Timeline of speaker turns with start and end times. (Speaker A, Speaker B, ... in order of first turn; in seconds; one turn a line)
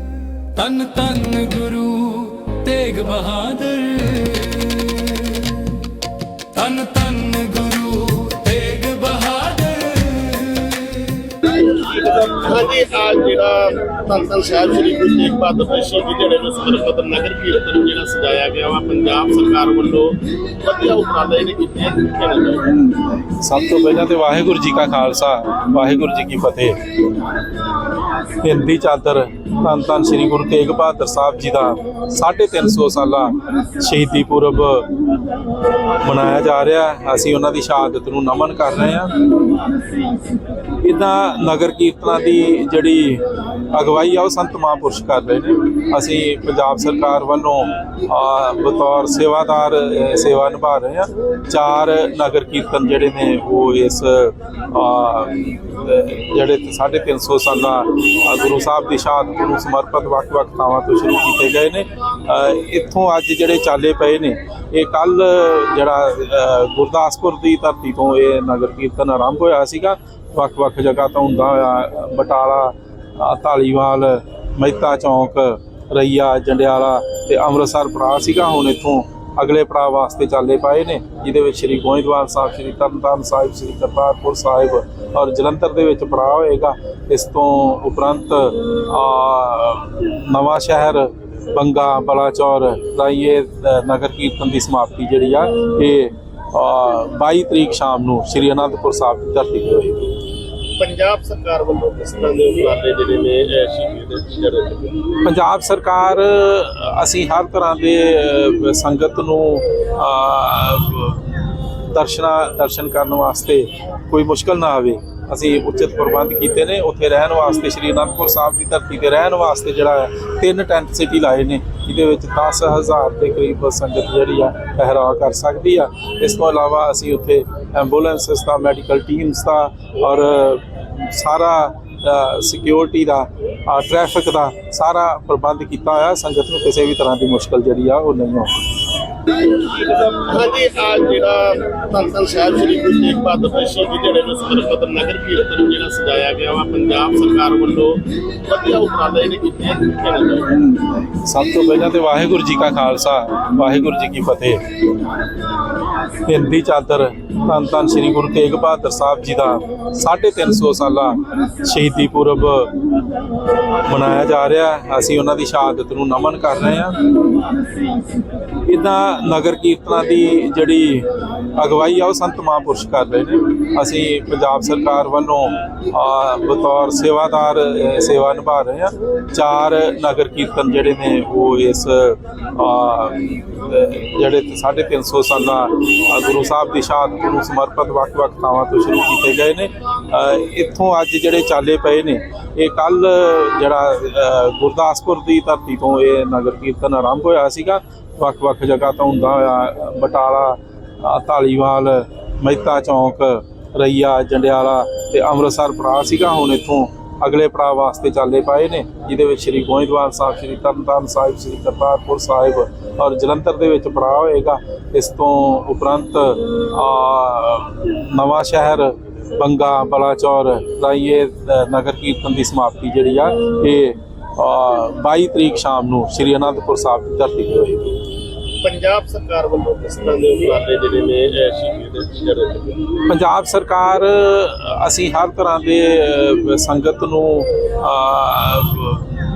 Speaker A: 0.6-5.7
Speaker A: 6.5-11.3
Speaker B: 11.5-22.8
Speaker C: 23.4-26.8
Speaker C: 28.4-34.9
Speaker C: 36.0-39.2
Speaker C: 40.8-100.1
Speaker B: 100.8-105.0
Speaker C: 105.2-111.3
Speaker C: 111.9-138.5
Speaker B: 139.5-150.6
Speaker C: 151.2-154.6
Speaker C: 156.2-162.8
Speaker C: 163.8-167.0
Speaker C: 168.7-227.9
Speaker B: 228.6-232.9
Speaker C: 233.1-239.1